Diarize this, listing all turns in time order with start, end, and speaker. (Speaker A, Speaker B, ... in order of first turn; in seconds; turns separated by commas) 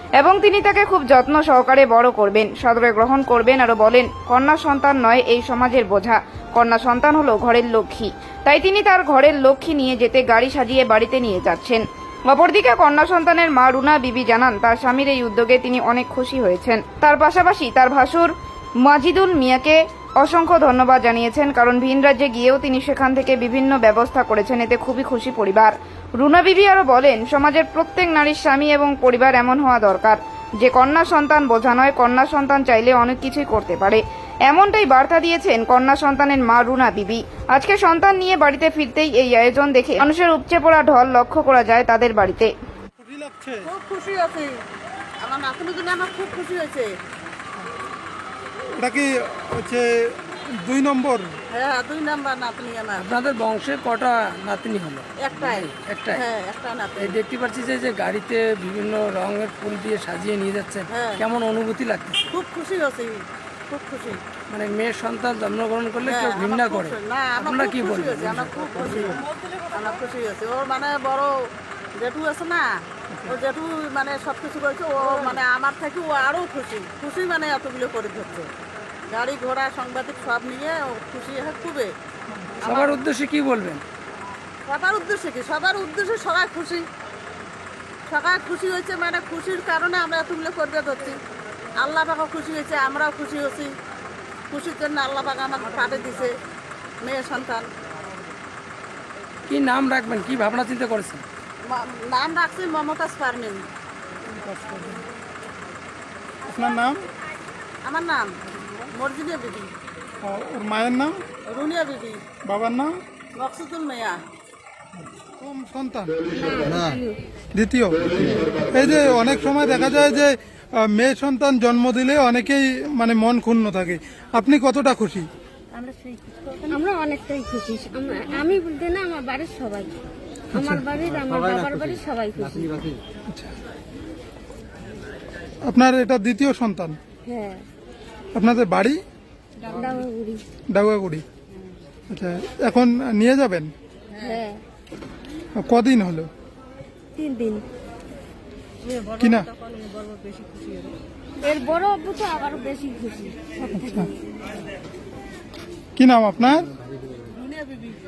Speaker A: 0.2-18.3, Speaker A: 18.8-42.5, Speaker B: 43.0-43.7, Speaker C: 43.6-44.5, Speaker C: 45.2-46.9, Speaker B: 48.7-51.4, Speaker C: 51.5-53.1, Speaker D: 53.0-56.2, Speaker C: 55.2-57.2, Speaker D: 57.0-62.3, Speaker C: 60.9-61.2, Speaker C: 62.3-64.2, Speaker D: 64.5-68.6, Speaker C: 66.0-71.3, Speaker C: 72.0-72.7, Speaker C: 73.3-78.5, Speaker C: 79.1-81.9, Speaker C: 82.6-83.0, Speaker D: 82.6-83.8, Speaker C: 84.7-86.9, Speaker C: 88.1-91.2, Speaker C: 91.8-93.7, Speaker C: 94.5-96.3, Speaker C: 97.0-97.7, Speaker D: 99.5-101.2, Speaker C: 101.7-103.6, Speaker B: 104.3-105.0, Speaker B: 106.4-107.0, Speaker C: 107.8-108.3, Speaker C: 108.9-109.7, Speaker B: 110.2-111.2, Speaker C: 111.5-112.2, Speaker B: 112.4-112.9, Speaker C: 113.3-114.2, Speaker B: 115.4-116.2, Speaker E: 116.3-117.2, Speaker B: 117.5-125.3, Speaker E: 126.5-129.9, Speaker B: 130.5-130.9, Speaker E: 130.5-132.9, Speaker B: 133.3-133.5, Speaker B: 135.6-137.0, Speaker E: 137.2-137.6, Speaker B: 138.3-139.0, Speaker E: 139.6-140.4, Speaker B: 140.7-141.2, Speaker B: 142.1-143.7, Speaker C: 144.1-144.4, Speaker E: 144.2-144.6, Speaker B: 145.6-146.3, Speaker E: 147.2-147.6, Speaker B: 149.1-149.5, Speaker E: 151.4-154.1, Speaker B: 153.7-154.1, Speaker B: 156.0-156.8